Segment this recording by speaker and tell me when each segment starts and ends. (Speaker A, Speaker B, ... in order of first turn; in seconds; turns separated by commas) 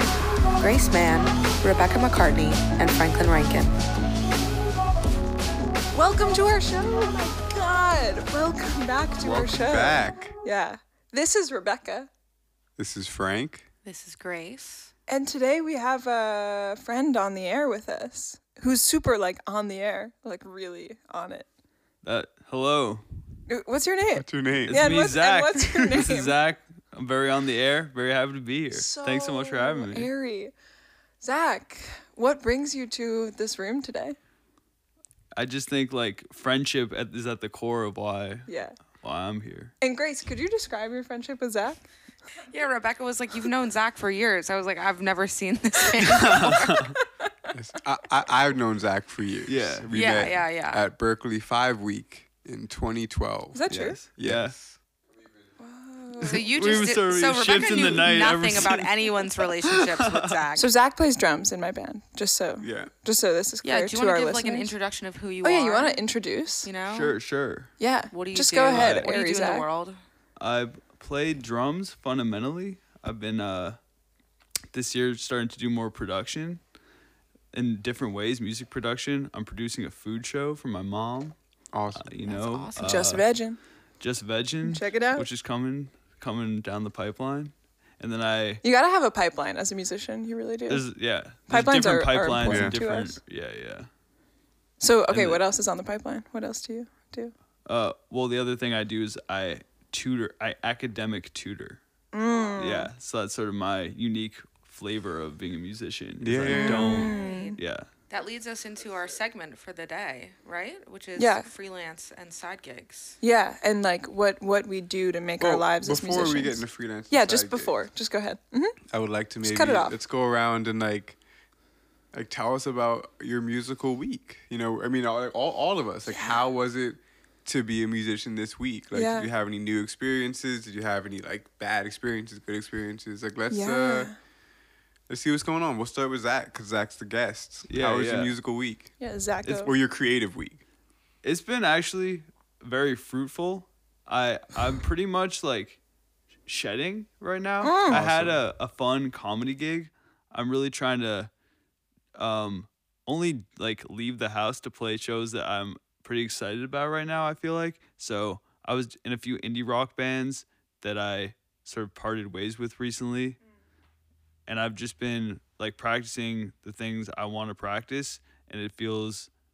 Speaker A: 0.6-3.7, Speaker B: 5.9-12.1, Speaker C: 9.2-10.3, Speaker C: 12.8-13.6, Speaker A: 13.8-14.9, Speaker B: 15.1-21.5, Speaker D: 22.0-23.0, Speaker B: 23.5-26.3, Speaker C: 24.1-24.8, Speaker D: 24.7-30.1, Speaker B: 28.7-30.5, Speaker B: 31.2-34.1, Speaker D: 35.4-38.5, Speaker B: 38.5-38.8, Speaker D: 39.0-39.7, Speaker B: 39.8-41.8, Speaker A: 42.5-46.9, Speaker D: 46.0-46.9, Speaker B: 46.9-47.3, Speaker C: 47.5-54.7, Speaker D: 49.5-49.9, Speaker A: 49.9-50.8, Speaker B: 53.5-54.0, Speaker D: 53.7-54.5, Speaker B: 55.6-56.5, Speaker A: 56.2-60.7, Speaker D: 56.4-60.4, Speaker B: 60.5-64.7, Speaker C: 62.6-62.9, Speaker A: 63.6-66.0, Speaker B: 65.4-66.7, Speaker A: 66.6-67.1, Speaker D: 66.9-67.7, Speaker B: 67.8-69.7, Speaker A: 68.1-70.0, Speaker D: 68.7-69.1, Speaker D: 70.4-73.8, Speaker D: 74.7-76.6, Speaker D: 77.5-81.3, Speaker C: 81.7-82.0, Speaker D: 81.9-83.2, Speaker A: 82.2-83.1, Speaker B: 82.8-83.6, Speaker D: 84.0-88.6, Speaker B: 84.6-85.3, Speaker B: 88.6-90.8, Speaker D: 90.7-93.9, Speaker B: 91.5-93.2, Speaker C: 92.4-92.8, Speaker B: 94.8-97.3, Speaker D: 95.1-95.4, Speaker D: 97.7-101.8, Speaker B: 102.1-102.9, Speaker D: 102.6-107.9, Speaker C: 106.2-107.1, Speaker B: 106.5-107.6, Speaker A: 106.5-107.5, Speaker A: 108.1-113.2, Speaker B: 111.2-111.5, Speaker B: 113.2-118.8, Speaker C: 115.4-117.7, Speaker C: 118.9-121.2, Speaker B: 119.4-120.0, Speaker C: 122.1-134.1, Speaker B: 126.1-126.4, Speaker B: 128.9-129.3, Speaker B: 133.5-134.1, Speaker C: 135.1-138.9, Speaker D: 137.7-138.3, Speaker B: 139.0-139.8, Speaker C: 139.7-140.6, Speaker D: 141.2-145.8, Speaker D: 146.4-151.3, Speaker B: 147.6-148.0, Speaker C: 147.9-148.4, Speaker D: 152.2-163.4, Speaker D: 164.5-169.3